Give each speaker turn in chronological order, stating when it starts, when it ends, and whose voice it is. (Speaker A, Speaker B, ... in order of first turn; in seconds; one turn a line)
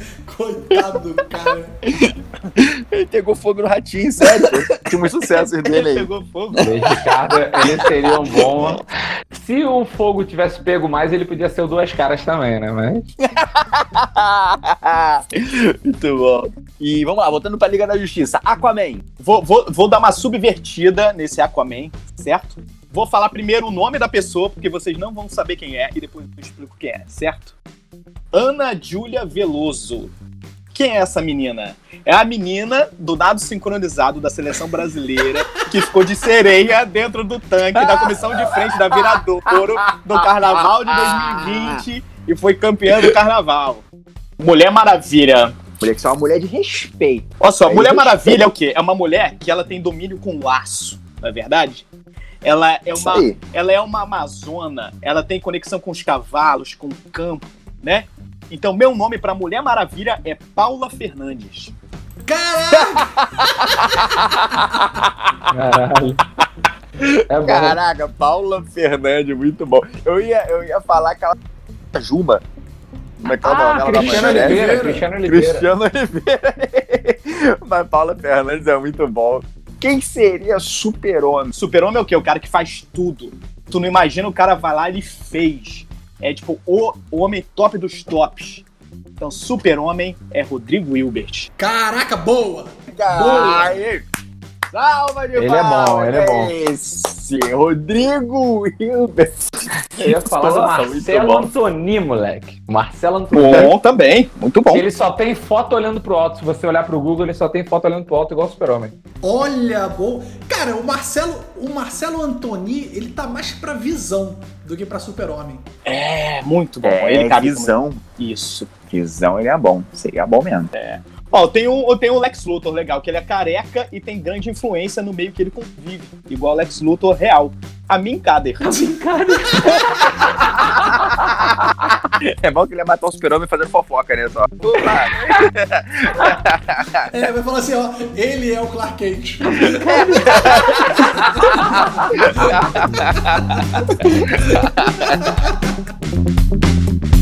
Speaker A: 0.2-1.7
Speaker B: 1.9-6.9
Speaker C: 5.3-6.7
Speaker D: 6.6-13.1
Speaker B: 7.6-8.8
Speaker B: 13.2-19.0
Speaker C: 19.2-27.5
Speaker C: 28.3-30.1
Speaker C: 30.7-43.8
Speaker B: 37.7-41.8
Speaker C: 44.4-45.6
Speaker B: 45.8-48.5
Speaker C: 47.4-51.8
Speaker C: 52.4-61.7
Speaker B: 52.9-53.4
Speaker A: 62.2-63.8
Speaker B: 62.7-65.1
Speaker D: 65.5-66.2
Speaker D: 67.3-67.8
Speaker B: 67.4-71.3
Speaker B: 71.9-72.4
Speaker B: 73.2-81.5
Speaker D: 73.2-75.7
Speaker A: 73.9-75.1
Speaker C: 81.5-88.6
Speaker C: 89.2-91.5
Speaker A: 91.6-93.8
Speaker B: 92.9-94.0
Speaker C: 93.2-93.8
Speaker B: 94.7-101.5
Speaker D: 95.3-96.5
Speaker D: 99.9-103.7
Speaker C: 103.3-104.8
Speaker D: 104.7-108.9
Speaker A: 109.2-115.7
Speaker C: 115.8-118.7
Speaker B: 116.8-118.0
Speaker B: 118.8-120.7
Speaker C: 120.7-128.8
Speaker D: 128.6-131.8
Speaker A: 129.3-130.2
Speaker B: 130.8-131.5
Speaker B: 132.1-137.1
Speaker D: 134.8-135.4
Speaker A: 137.1-145.8
Speaker D: 139.7-142.0
Speaker B: 140.1-141.0
Speaker B: 142.1-145.2